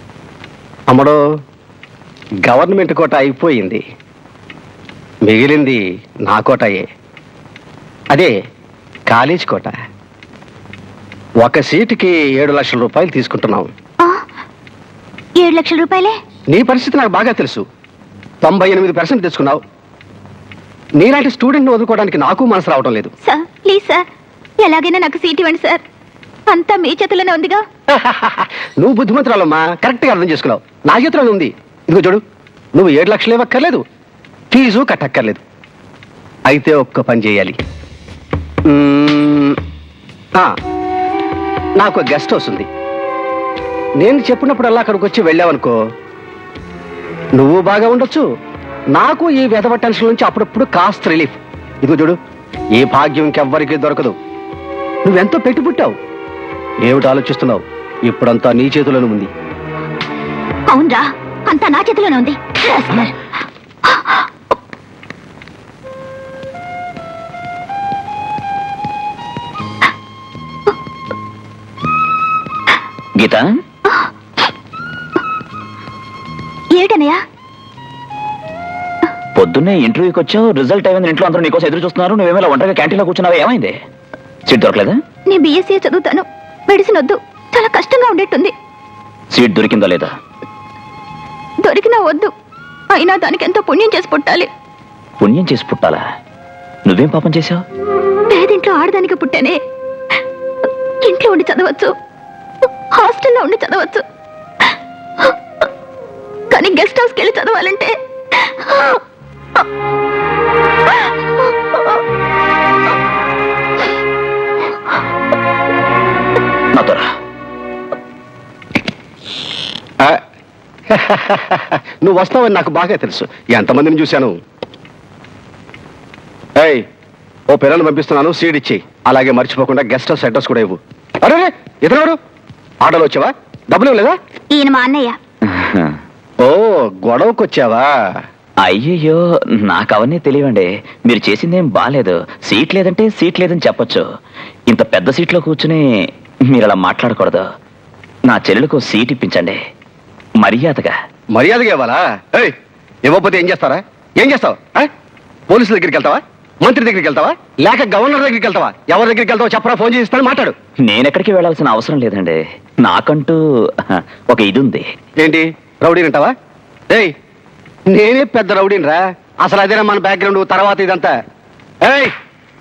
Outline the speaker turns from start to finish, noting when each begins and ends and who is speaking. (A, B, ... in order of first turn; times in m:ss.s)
0:00.9-0:01.2 A
0:02.5-0:03.8 A
0:05.2-0:06.8 A
0:09.1-0:09.7 A
0:11.4-0:13.7 A
0:15.4-0:16.2 B
0:16.5-0:17.6 A
0:18.4-0:19.6 A
0:21.0-0:23.1 A
0:23.2-0:24.0 B
0:24.6-0:25.8 B
0:26.5-0:27.6 B
0:27.9-0:32.2 A
0:32.8-0:33.8 A
0:34.5-0:35.4 A
0:36.5-0:37.6 A
0:38.7-0:39.6 A
0:41.8-0:42.7 A
0:44.0-0:45.8 A
0:47.4-0:48.2 A
0:49.0-0:52.2 A
0:52.8-0:54.1 A
0:55.0-0:56.0 A
0:56.8-0:59.3 A
1:00.7-1:03.1 B
1:03.8-1:04.2 B
1:13.2-1:13.6 C
1:16.7-1:17.2 B
1:19.4-1:23.8 C
1:24.5-1:25.0 C
1:25.3-1:28.5 B
1:29.3-1:30.1 C
1:31.6-1:32.3 B
1:32.9-1:34.5 B
1:35.2-1:36.0 C
1:36.9-1:37.6 C
1:38.3-1:39.6 B
1:41.0-1:41.9 B
1:42.9-1:44.0 B
1:46.5-1:49.0 B
1:51.4-1:52.0 B
1:56.7-1:57.0 C
2:00.9-2:04.3 A
2:06.6-2:06.8 A
2:07.5-2:12.2 A
2:12.8-2:14.2 A
2:14.5-2:15.2 B
2:15.5-2:16.0 C
2:16.4-2:17.9 A
2:18.6-2:24.0 C
2:24.7-2:25.8 C
2:26.5-2:27.5 C
2:28.3-2:29.6 C
2:30.4-2:30.9 C
2:31.3-2:32.5 A
2:33.1-2:34.9 A
2:35.5-2:40.6 A
2:40.8-2:44.9 C
2:45.2-2:46.3 A
2:47.9-2:51.1 A
2:51.8-2:52.1 A